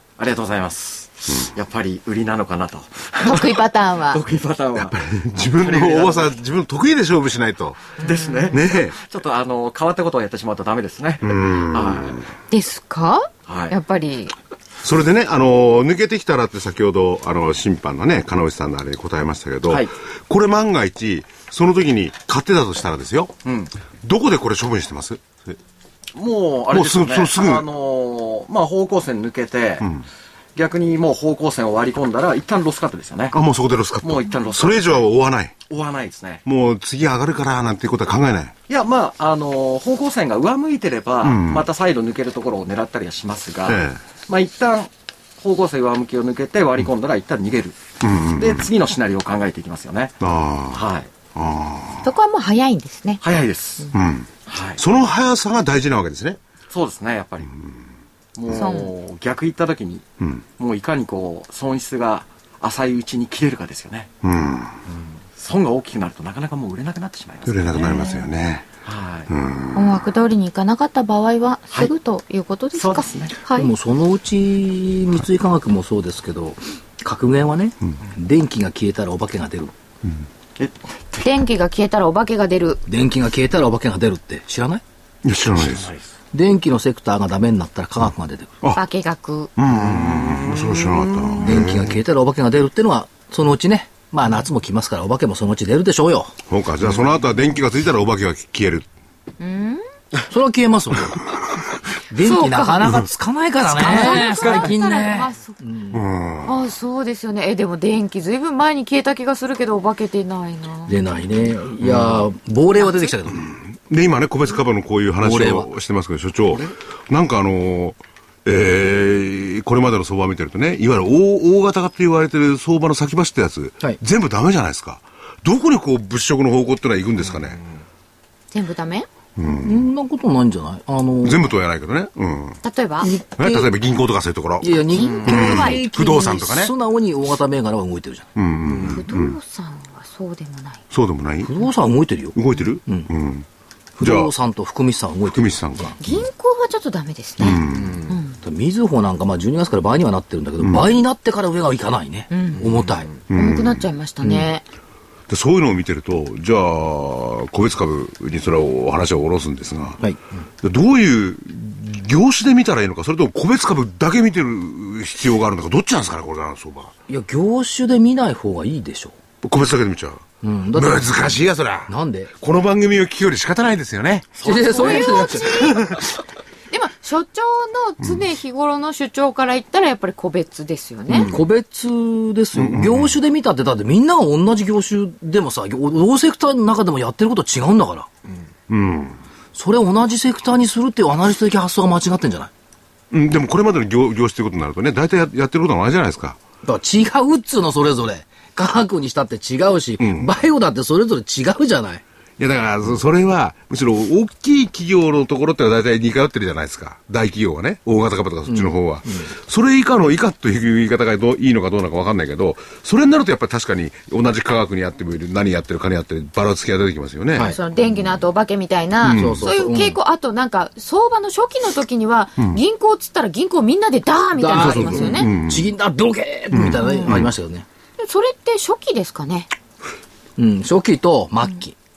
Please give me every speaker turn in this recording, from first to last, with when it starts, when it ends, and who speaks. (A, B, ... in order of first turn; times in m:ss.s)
0:00.2-0:05.0 A
0:03.2-0:04.2 B
0:04.8-0:07.9 C
0:05.5-0:06.4 A
0:08.0-0:12.2 A
0:08.0-0:08.6 B
0:08.5-0:09.0 C
0:11.2-0:12.3 C
0:12.5-0:14.4 B
0:13.5-0:13.8 A
0:14.8-0:23.3 C
0:19.7-0:19.9 A
0:23.4-0:23.7 A
0:24.0-0:25.6 C
0:26.2-0:29.9 A
0:26.7-0:27.7 C
0:30.6-0:33.4 A
0:33.3-0:35.6 C
0:34.0-0:35.0 A
0:35.7-0:36.4 A
0:36.5-0:38.5 C
0:38.7-0:47.8 A
0:41.2-0:41.7 C
0:43.7-0:44.0 C
0:48.0-0:48.7 C
0:48.4-0:50.2 A
0:50.2-0:50.8 C
0:50.7-0:51.1 A
0:51.4-0:52.1 C
0:52.0-0:53.2 B
0:53.2-0:53.9 A
0:53.9-0:56.4 C
0:54.5-0:54.8 A
0:56.7-0:57.5 A
0:58.4-1:00.0 A
0:58.5-0:58.9 B
1:00.6-1:04.1 A
1:04.2-1:04.8 C
1:04.9-1:08.2 A
1:07.5-1:08.7 C
1:08.8-1:09.3 A
1:09.3-1:10.0 C
1:09.7-1:13.7 B
1:12.8-1:13.3 A
1:13.5-1:19.7 D
1:20.6-1:21.2 A
1:21.2-1:22.8 B
1:22.9-1:24.8 D
1:25.2-1:25.9 C
1:25.6-1:26.0 A
1:26.3-1:28.6 D
1:28.7-1:29.5 B
1:29.6-1:32.0 C
1:29.7-1:31.6 A
1:31.4-1:36.3 D
1:36.5-1:38.9 C
1:39.4-1:39.8 B
1:40.3-1:41.3 D
1:42.1-1:46.0 D
1:42.2-1:43.0 B
1:43.8-1:45.6 B
1:45.9-1:46.6 C
1:46.4-1:51.0 B
1:50.9-1:53.5 D
1:51.8-1:52.2 C
1:53.4-2:07.6 C
1:55.2-1:55.7 D
2:07.2-2:07.6 A
2:08.5-2:09.1 B
2:09.4-2:09.8 C
2:09.4-2:11.5 D
2:11.2-2:12.6 C
2:12.6-2:13.1 B
2:13.0-2:13.7 D
2:13.4-2:16.7 C
2:14.6-2:18.3 D
2:14.9-2:15.9 B
2:15.0-2:15.4 A
2:18.4-2:19.4 C
2:18.7-2:19.0 A
2:18.8-2:20.8 B
2:20.9-2:21.6 C
2:21.4-2:23.1 D
2:22.4-2:23.5 C
2:24.0-2:25.9 D
2:24.0-2:24.3 C
2:25.3-2:26.2 C
2:26.0-2:28.4 B
2:27.4-2:28.0 C
2:27.7-2:28.1 A
2:28.4-2:33.1 D
2:32.3-2:32.7 B
2:32.6-2:33.1 A
2:33.3-2:33.8 C
2:33.3-2:34.6 B
2:35.3-2:40.0 C
2:40.6-2:46.9 C
2:47.1-2:49.2 D
2:49.4-2:50.2 C
2:50.4-2:51.4 D
2:50.8-2:54.4 C
2:51.9-2:52.3 D
2:54.4-2:55.5 A
2:54.4-2:55.8 D
2:54.7-2:55.8 B
2:56.7-3:01.3 B
3:01.2-3:08.1 D
3:02.6-3:03.1 C
3:08.7-3:09.2 C
3:09.5-3:12.5 D
3:13.1-3:16.4 C
3:16.6-3:22.0 D
3:20.0-3:20.3 C
3:22.4-3:37.5 C
3:28.5-3:29.3 D
3:37.3-3:37.6 D
3:37.4-3:45.3 B
3:39.0-3:39.5 C
3:39.1-3:40.0 D
3:44.4-3:47.7 D
3:44.6-3:45.7 C
3:46.5-3:47.3 C
3:46.7-3:47.2 B
3:48.0-3:49.5 B
3:50.4-3:51.8 D